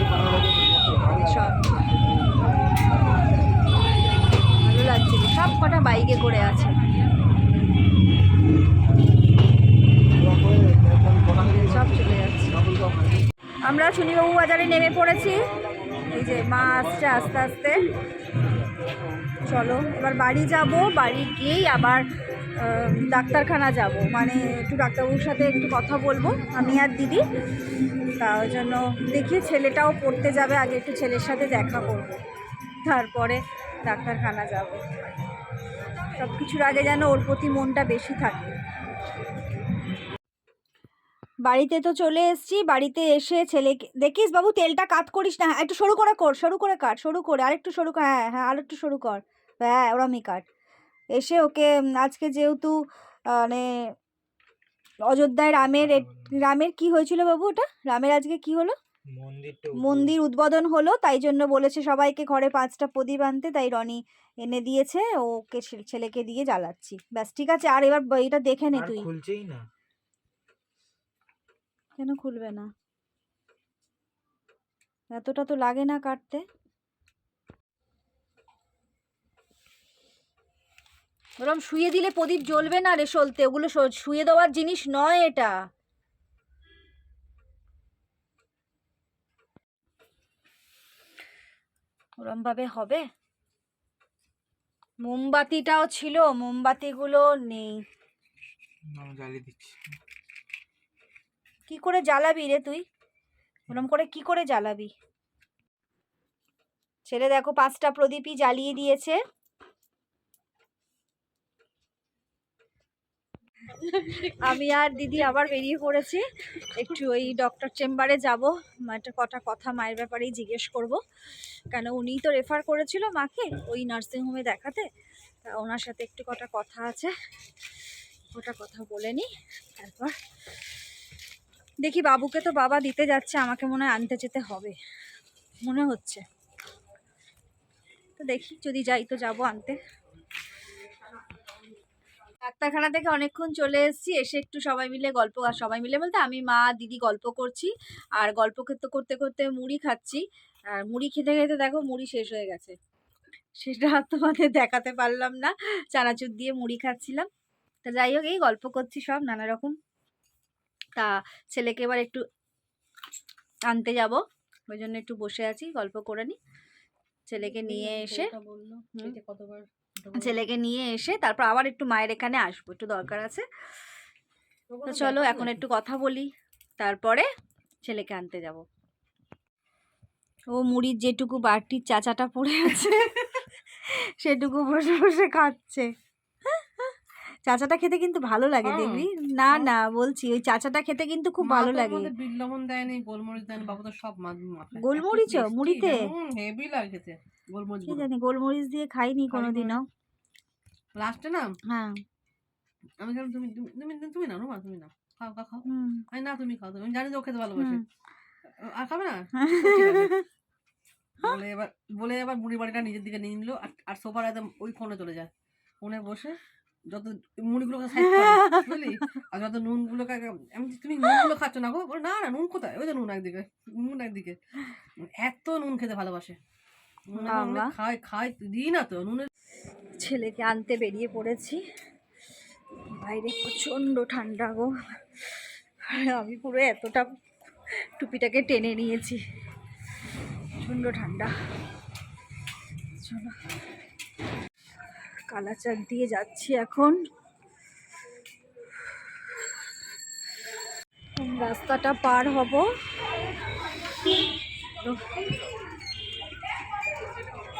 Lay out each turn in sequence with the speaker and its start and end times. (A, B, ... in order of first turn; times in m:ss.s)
0:01.0-0:01.9 A
0:04.6-0:06.8 A
0:11.2-0:12.6 A
0:13.6-0:15.4 A
0:16.0-0:17.8 A
0:19.5-0:22.0 A
0:22.6-0:27.2 A
0:28.2-0:32.2 A
0:32.8-0:35.0 A
0:36.1-0:38.5 A
0:41.4-0:50.4 A
0:51.1-0:53.9 A
0:55.1-0:58.7 A
0:55.6-0:56.3 B
0:59.1-1:00.2 B
0:59.8-1:09.1 A
1:08.7-1:09.6 B
1:12.0-1:12.7 A
1:15.1-1:16.4 A
1:21.4-1:25.5 A
1:32.2-1:33.0 A
1:35.0-1:37.8 A
1:38.9-1:40.0 B
1:41.7-1:42.8 A
1:43.7-1:44.9 A
1:47.0-1:49.2 A
1:53.8-1:54.4 C
1:54.2-2:01.0 A
2:01.7-2:04.9 A
2:05.4-2:07.1 A
2:08.3-2:10.2 A
2:11.8-2:14.8 A
2:15.6-2:16.2 A
2:18.2-2:19.8 A
2:22.4-2:32.8 A
2:33.6-2:37.3 A
2:37.8-2:39.8 A
2:41.0-2:42.2 A
2:43.7-2:46.4 A
2:47.3-2:48.3 A
2:47.4-2:50.4 C
2:50.1-2:53.4 A
2:54.7-2:55.6 C
2:54.8-2:57.3 A
2:57.8-2:58.6 A
3:00.5-3:03.2 A
3:03.8-3:05.9 A
3:06.5-3:12.1 A
3:08.6-3:09.7 C
3:11.4-3:18.1 C
3:14.8-3:16.1 A
3:17.9-3:19.8 A
3:19.3-3:19.8 C
3:21.0-3:21.5 C
3:21.7-3:22.0 A
3:23.0-3:27.8 C
3:25.6-3:26.0 A
3:27.6-3:27.8 A
3:28.6-3:30.2 C
3:29.4-3:30.2 A
3:31.2-3:35.3 C
3:35.8-3:36.4 C
3:36.9-3:44.4 C
3:38.0-3:38.8 A
3:45.0-3:46.4 C
3:47.1-3:49.3 C
3:47.2-3:47.7 A
3:50.0-3:51.6 A
3:53.0-3:57.2 A
3:57.8-3:59.2 A
4:00.6-4:01.3 A
4:03.0-4:03.4 A
4:05.3-4:07.0 A
4:11.2-4:12.7 A
4:14.8-4:15.1 A